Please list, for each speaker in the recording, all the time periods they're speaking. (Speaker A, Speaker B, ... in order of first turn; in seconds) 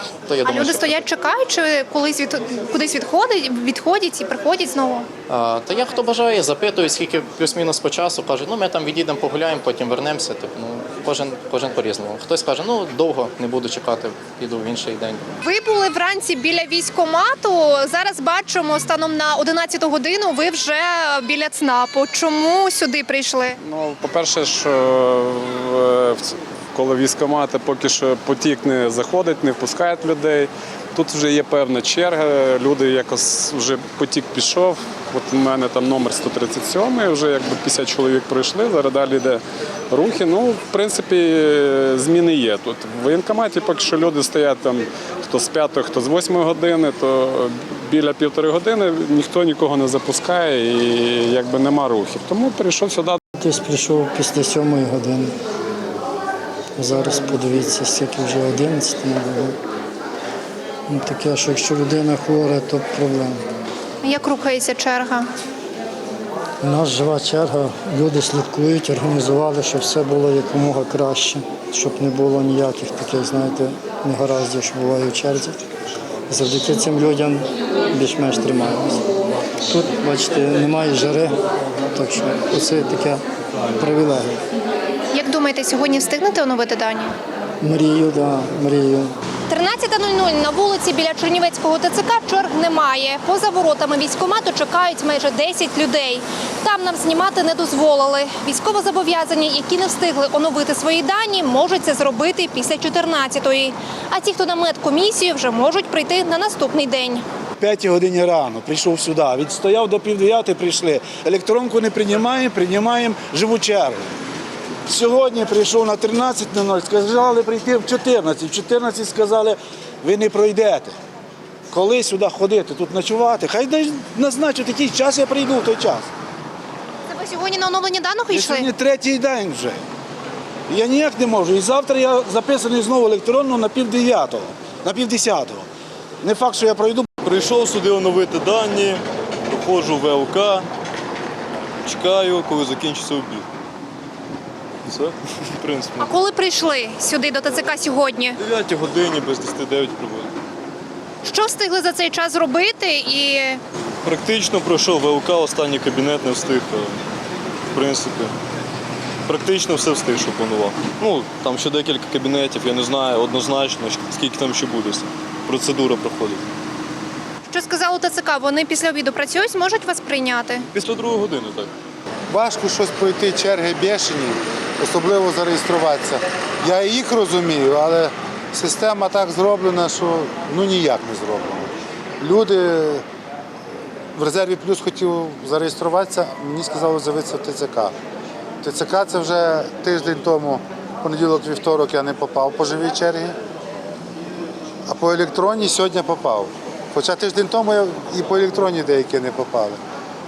Speaker A: 0.3-1.0, 5.3-15.2
Speaker B: 0.5-5.1, 15.4-23.6, 64.0-65.3, 85.1-87.1, 89.5-107.2, 127.1-128.7, 146.0-148.4, 151.2-153.6, 167.5-170.6
Speaker C: 23.6-53.2
Speaker D: 53.4-55.3, 56.8-59.6, 60.9-63.4, 66.6-75.6, 76.3-79.0, 79.7-83.2, 83.8-84.4, 87.6-89.1
Speaker E: 107.6-114.0, 114.9-120.9, 121.7-126.1, 128.3-129.8, 130.7-135.7, 136.2-137.1
Speaker F: 137.2-140.6, 141.8-143.4, 144.9-146.1, 148.4-150.3, 154.0-157.0, 157.7-158.3, 159.3-166.4, 170.7-171.7
Speaker G: 172.3-181.7, 182.2-183.0, 184.2-187.9, 188.6-193.3, 194.9-199.8